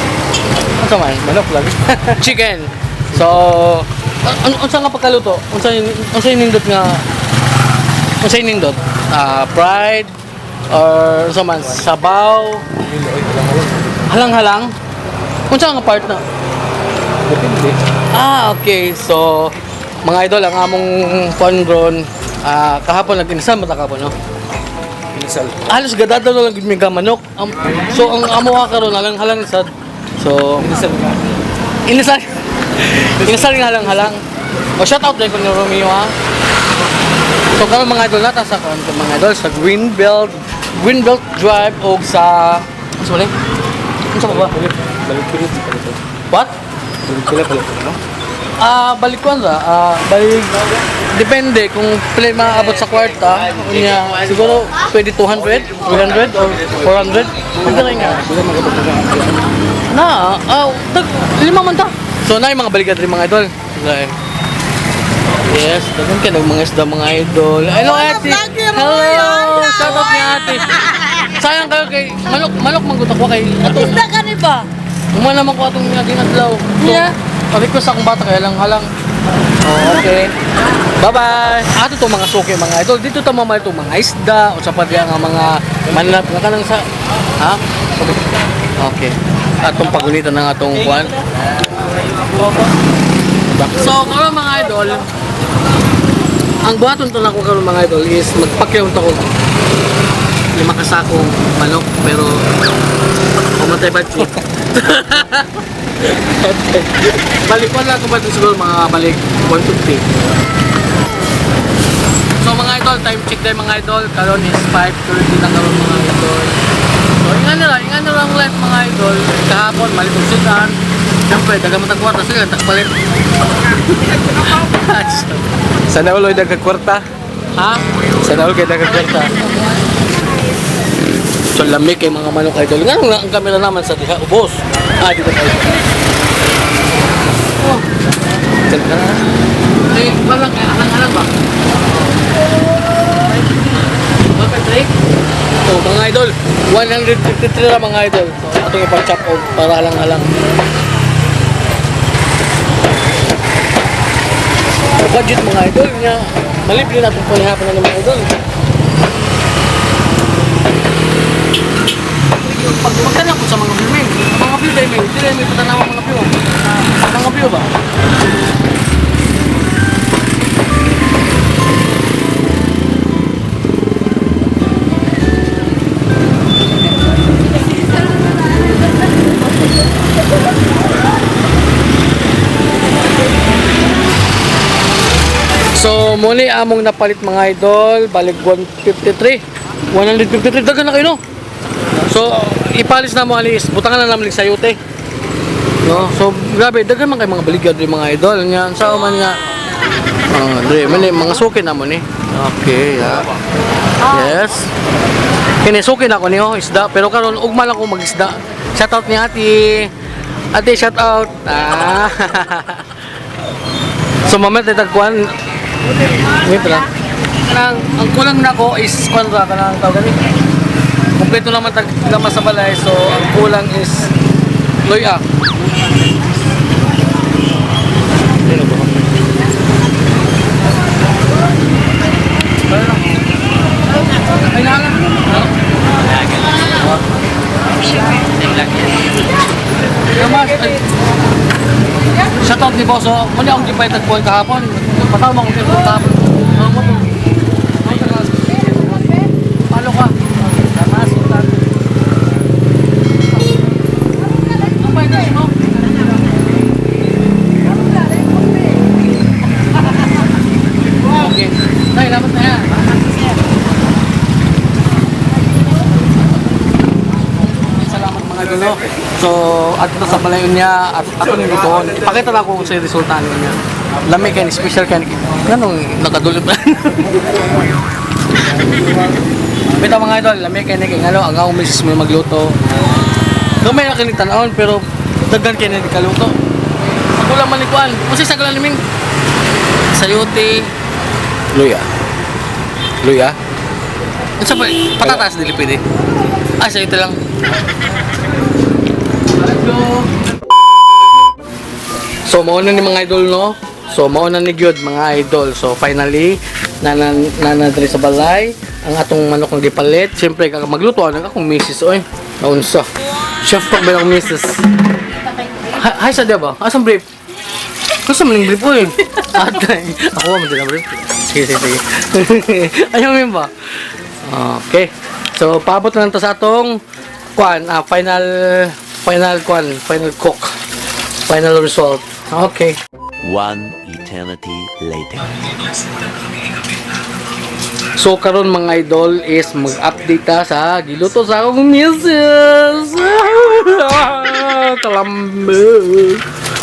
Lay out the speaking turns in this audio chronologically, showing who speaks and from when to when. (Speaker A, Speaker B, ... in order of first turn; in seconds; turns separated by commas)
Speaker A: 0.8-7.0, Speaker A: 8.2-10.1, Speaker A: 10.7-12.8, Speaker B: 13.0-13.8, Speaker A: 13.9-14.7, Speaker A: 15.5-16.2, Speaker B: 17.3-17.8, Speaker A: 18.1-24.1, Speaker B: 25.2-25.6, Speaker A: 25.5-31.1, Speaker A: 31.8-34.2, Speaker A: 34.8-36.1, Speaker A: 37.5-43.3, Speaker A: 44.1-44.6, Speaker B: 44.6-46.0, Speaker B: 47.1-48.0, Speaker A: 48.6-50.6, Speaker A: 51.1-59.0, Speaker B: 58.2-59.3, Speaker A: 59.9-64.1, Speaker A: 65.5-78.9, Speaker A: 79.6-80.3, Speaker A: 81.0-86.8, Speaker A: 87.4-88.1, Speaker A: 88.8-91.2, Speaker A: 93.5-95.1, Speaker A: 96.6-99.3, Speaker A: 100.5-102.4, Speaker A: 103.5-110.1, Speaker A: 112.4-116.6, Speaker A: 117.2-120.7, Speaker A: 121.3-122.9, Speaker A: 124.0-127.0, Speaker A: 127.5-129.5, Speaker A: 131.5-135.9, Speaker A: 138.7-139.2, Speaker A: 139.9-141.3, Speaker A: 144.3-144.9, Speaker A: 145.6-150.3, Speaker A: 155.0-158.3, Speaker A: 162.4-166.4, Speaker A: 167.0-167.7, Speaker A: 185.7-191.2, Speaker A: 192.0-194.8, Speaker A: 195.8-199.4, Speaker A: 200.3-203.3, Speaker A: 204.0-204.7, Speaker A: 205.6-209.9, Speaker A: 210.5-212.9, Speaker A: 214.2-215.3, Speaker A: 216.1-216.9, Speaker A: 217.4-220.2, Speaker A: 221.2-224.1, Speaker A: 224.8-225.2, Speaker A: 232.7-233.2, Speaker A: 234.2-237.0, Speaker A: 238.2-238.9, Speaker A: 240.1-240.8, Speaker A: 242.4-251.7, Speaker A: 254.6-255.6, Speaker A: 261.0-262.9, Speaker A: 267.4-277.2, Speaker A: 279.7-282.5, Speaker A: 283.6-286.3, Speaker A: 287.1-288.8, Speaker A: 289.9-290.7, Speaker A: 291.5-291.9, Speaker A: 293.0-293.4, Speaker A: 294.4-295.8, Speaker A: 296.6-297.2, Speaker A: 299.3-300.1, Speaker A: 302.2-312.9, Speaker A: 313.4-314.6, Speaker A: 315.6-317.1, Speaker A: 318.0-323.5, Speaker A: 324.2-326.8, Speaker A: 327.3-330.6, Speaker A: 331.3-332.8, Speaker C: 333.2-335.3, Speaker A: 338.0-346.2